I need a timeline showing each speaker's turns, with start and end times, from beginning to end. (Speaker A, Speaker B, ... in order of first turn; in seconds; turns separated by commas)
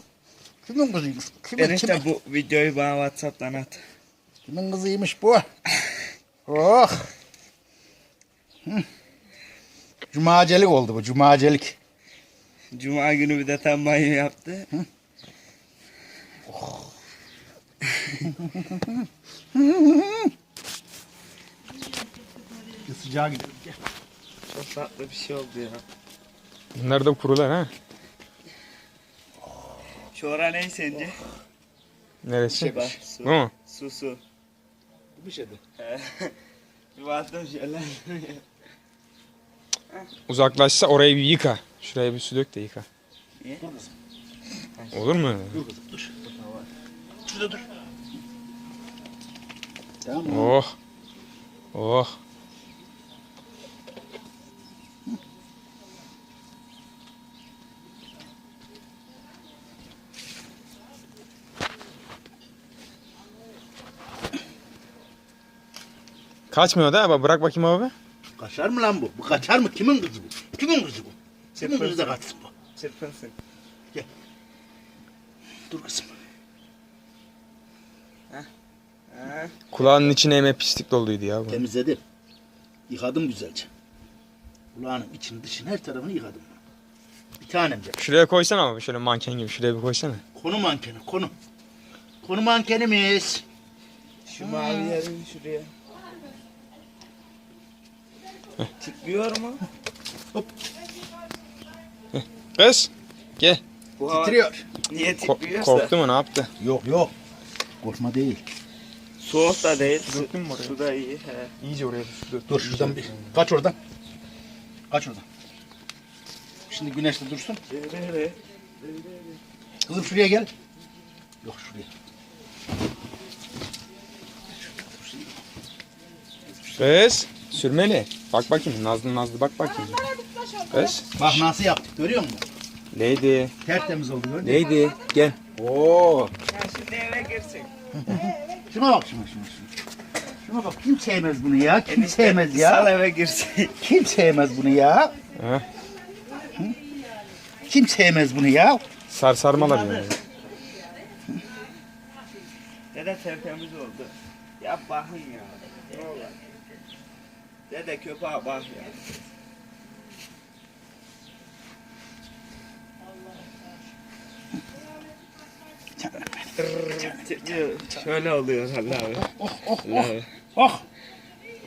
Speaker A: 0.6-2.0, Speaker B: 1.6-3.8, Speaker A: 4.5-5.4, Speaker A: 6.5-7.1, Speaker A: 10.1-11.8, Speaker B: 12.7-14.7, Speaker A: 16.5-16.9, Speaker A: 18.2-20.3, Speaker A: 22.8-23.8, Speaker B: 24.5-25.8, Speaker C: 26.7-27.7, Speaker B: 30.1-31.1, Speaker C: 32.2-33.5, Speaker B: 32.5-34.2, Speaker A: 35.1-35.6, Speaker B: 35.8-36.3, Speaker B: 36.9-38.4, Speaker C: 40.3-42.8, Speaker A: 43.6-43.9, Speaker B: 44.8-45.0, Speaker C: 44.9-45.6, Speaker A: 45.5-46.1, Speaker B: 46.2-46.7, Speaker A: 47.2-47.6, Speaker A: 50.0-50.6, Speaker C: 50.3-50.7, Speaker C: 51.7-52.1, Speaker C: 66.5-67.9, Speaker A: 68.4-72.5, Speaker B: 71.5-72.2, Speaker B: 72.7-73.3, Speaker A: 75.7-76.1, Speaker B: 79.1-79.5, Speaker C: 79.7-81.6, Speaker A: 81.5-82.0, Speaker A: 82.9-83.7, Speaker A: 84.7-86.6, Speaker A: 87.4-88.0, Speaker C: 88.0-90.2, Speaker A: 90.3-91.3, Speaker A: 92.2-93.4, Speaker B: 94.2-95.7, Speaker A: 94.4-95.0, Speaker B: 98.8-99.6, Speaker C: 102.1-103.6, Speaker B: 104.0-105.9, Speaker A: 104.1-104.6, Speaker C: 105.2-106.5, Speaker A: 106.6-107.1, Speaker A: 107.8-108.4, Speaker B: 109.2-111.5, Speaker C: 110.0-110.8, Speaker C: 111.6-113.2, Speaker A: 112.5-113.8, Speaker A: 114.9-115.2, Speaker A: 116.7-117.6, Speaker B: 117.7-119.4, Speaker A: 119.8-120.5, Speaker A: 121.4-121.9, Speaker A: 124.7-125.4, Speaker A: 126.5-126.9, Speaker C: 126.8-130.1, Speaker C: 130.7-131.4, Speaker A: 131.1-132.4, Speaker C: 132.9-133.5, Speaker A: 133.6-136.3, Speaker C: 134.4-135.1, Speaker B: 136.5-137.7, Speaker A: 138.0-139.7, Speaker A: 140.4-142.9, Speaker B: 141.9-143.7, Speaker A: 143.8-145.2, Speaker C: 145.3-145.6, Speaker A: 147.6-148.8, Speaker C: 149.1-150.2, Speaker B: 149.5-150.1, Speaker B: 152.9-156.4, Speaker B: 157.7-159.0, Speaker A: 166.0-167.2, Speaker B: 166.6-169.3, Speaker A: 169.2-170.8, Speaker B: 169.8-170.3